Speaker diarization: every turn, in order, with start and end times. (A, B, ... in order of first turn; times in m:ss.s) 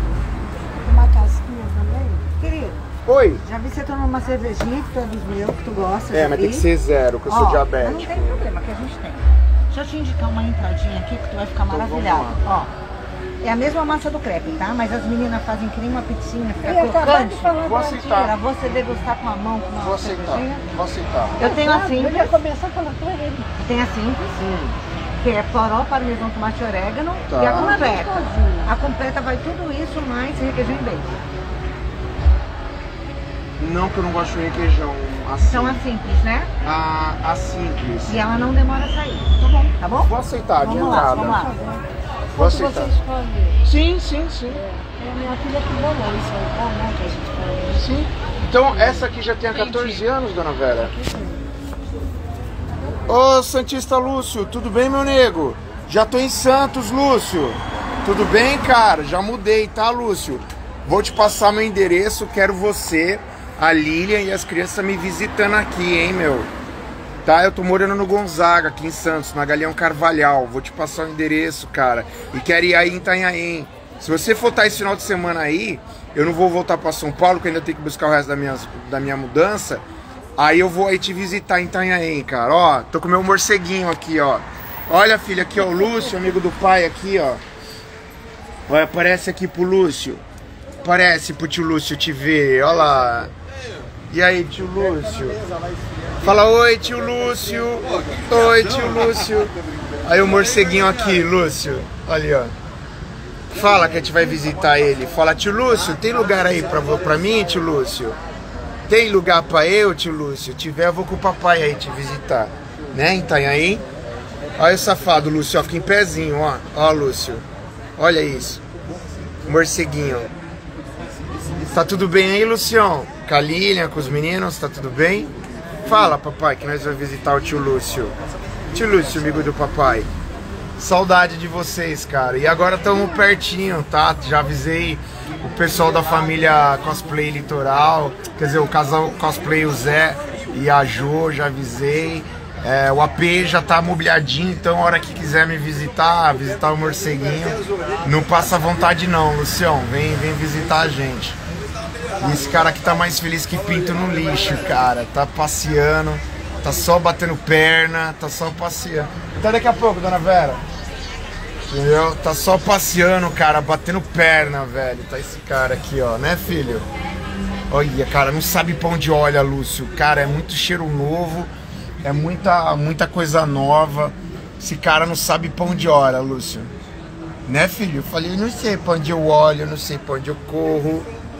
0:00.8-0:02.3 A
0:02.4-0:02.8 B
0:03.0-0:03.4 C
0:03.4-0:06.6 B
0:06.1-0:08.4 C
0:07.3-0:12.7 B
0:11.7-0:12.4 C
0:13.4-0:20.6 B
0:16.6-0:17.9 A
0:17.6-0:18.3 C
0:19.8-0:21.5 C
0:21.4-0:22.4 B
0:21.4-0:23.5 A
0:23.6-0:24.4 B
0:24.4-0:24.8 C
0:25.2-0:31.2 B
0:27.3-0:27.8 C
0:27.5-0:28.7 A
0:33.6-0:35.8 C
0:35.4-0:36.5 B
0:36.6-0:38.2 C
0:38.1-0:41.5 B
0:39.4-0:41.4 C
0:41.0-0:43.6 A
0:42.3-0:42.9 C
0:43.6-0:44.6 C
0:44.5-0:47.9 A
0:47.7-0:50.9 C
0:48.7-0:49.1 A
0:49.5-0:50.0 B
0:50.8-0:51.4 A
0:53.1-1:06.5 C
1:07.2-1:19.8 C
1:20.4-1:27.4 C
1:28.7-1:30.2 C
1:30.8-1:33.3 C
1:34.1-1:35.4 C
1:36.2-1:42.5 C
1:43.5-1:48.2 C
1:48.9-1:53.8 C
1:54.6-1:57.4 C
1:58.0-1:58.6 C
1:59.4-2:00.3 C
2:01.6-2:05.3 C
2:05.8-2:08.1 C
2:08.7-2:10.1 C
2:10.8-2:31.4 C
2:32.2-2:40.6 C
2:41.6-2:46.9 C
2:47.7-2:51.5 C
2:52.0-2:56.7 C
2:57.5-3:01.1 C